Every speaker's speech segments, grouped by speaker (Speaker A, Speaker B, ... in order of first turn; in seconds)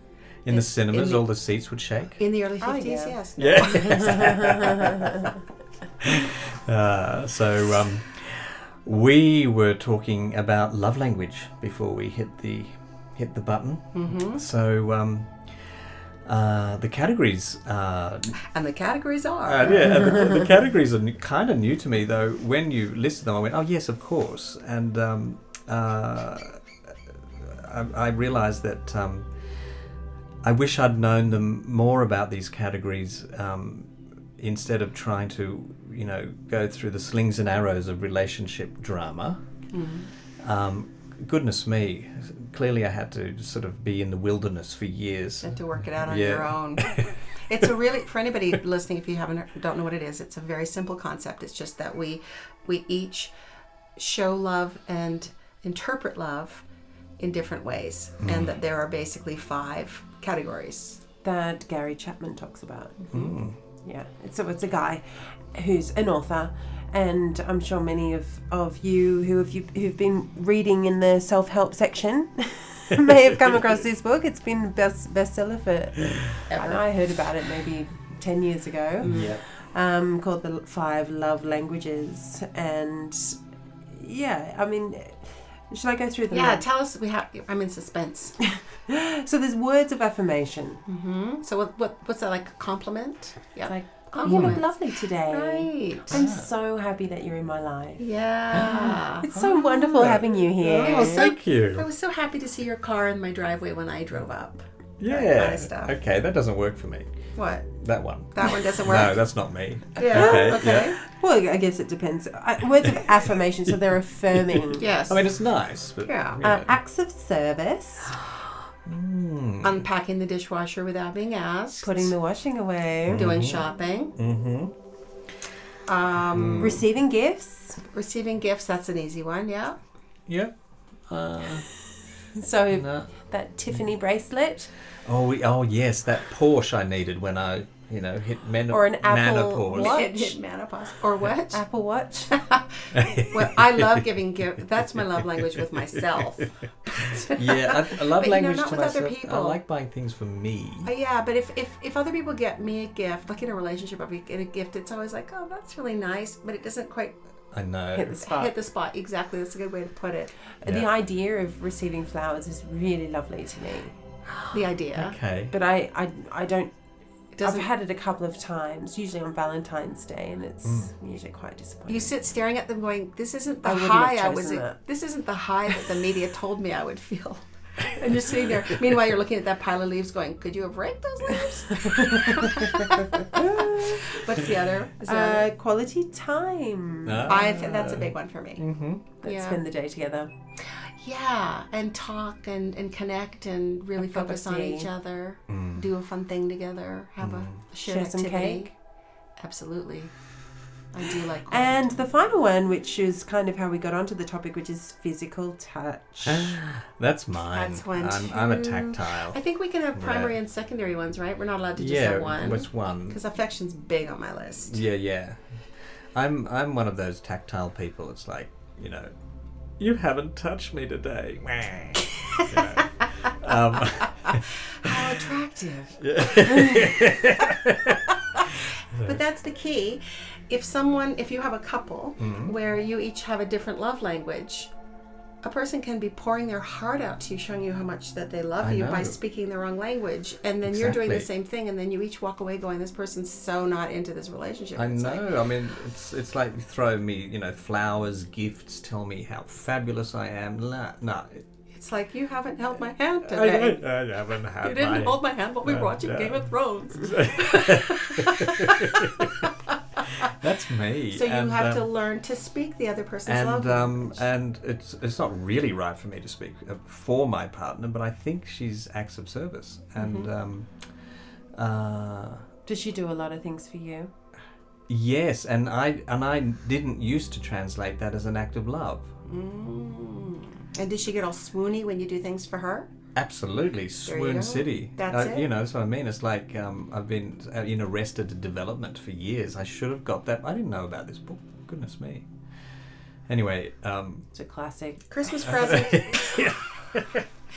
Speaker A: 0.4-2.2, 3.4-5.3, 6.0-18.4, 19.4-26.6, 27.4-29.3, 30.4-39.4, 40.4-47.2, 58.2-58.5, 63.1-63.6, 79.0-79.4, 94.2-94.6, 96.1-96.5, 98.5-101.9, 105.0-107.2, 107.7-111.0, 114.5-116.7, 118.9-119.8, 123.1-123.7, 124.2-124.7, 126.3-126.8, 130.3-130.5, 131.1-131.7, 132.7-133.1, 135.1-140.0, 142.9-143.8, 147.3-150.9, 157.5-158.1, 164.9-165.6, 170.6-170.9, 183.4-184.2, 187.0-189.1, 195.5-195.9, 197.2-197.6, 206.2-209.4, 209.9-210.3, 211.8-213.2, 214.6-215.4, 216.1-219.1, 219.8-225.0, 226.0-229.2, 232.2-232.5, 238.6-239.2, 240.7-241.3, 244.8-251.5, 253.2-259.5, 260.2-261.9, 263.3-270.7, 271.6-272.5, 274.9-279.1, 283.1-292.3, 293.3-294.3, 295.3-297.3
Speaker B: 0.5-1.2, 2.2-4.7, 13.9-14.4, 18.4-19.8, 39.7-40.1, 45.4-53.3, 54.0-56.6, 57.2-61.0, 76.5-76.8, 79.0-79.3, 86.3-88.4, 90.9-96.2, 98.0-99.3, 101.0-105.9, 107.4-107.7, 108.3-109.2, 110.0-111.0, 114.8-115.2, 116.0-116.4, 119.6-122.1, 123.2-124.1, 125.9-126.8, 127.9-129.8, 139.7-141.6, 142.3-149.6, 150.8-157.2, 158.1-160.3, 164.5-165.2, 167.4-167.7, 171.9-185.5, 187.2-188.6, 189.2-189.6, 191.0-198.7, 199.4-200.1, 200.9-201.8, 207.4-214.8, 224.3-226.0, 229.0-234.7, 235.4-245.3, 251.7-253.8, 254.6-259.5, 261.1-264.2, 270.0-270.3, 279.2-282.9, 284.1-285.4, 295.1-296.5
Speaker C: 2.6-3.2, 3.9-5.1, 61.2-63.3, 63.8-86.7, 88.9-90.8, 93.7-101.3, 110.0-114.9, 116.4-118.2, 121.8-123.3, 126.6-127.8, 132.4-134.7, 138.7-140.4, 141.5-142.4, 157.9-158.6, 160.6-164.0, 165.5-166.7, 167.4-172.1, 173.6-174.8, 181.8-182.7, 183.3-184.0, 185.0-187.4, 189.2-190.3, 194.0-194.9, 197.8-198.7, 201.5-206.6, 272.7-274.1, 294.3-295.1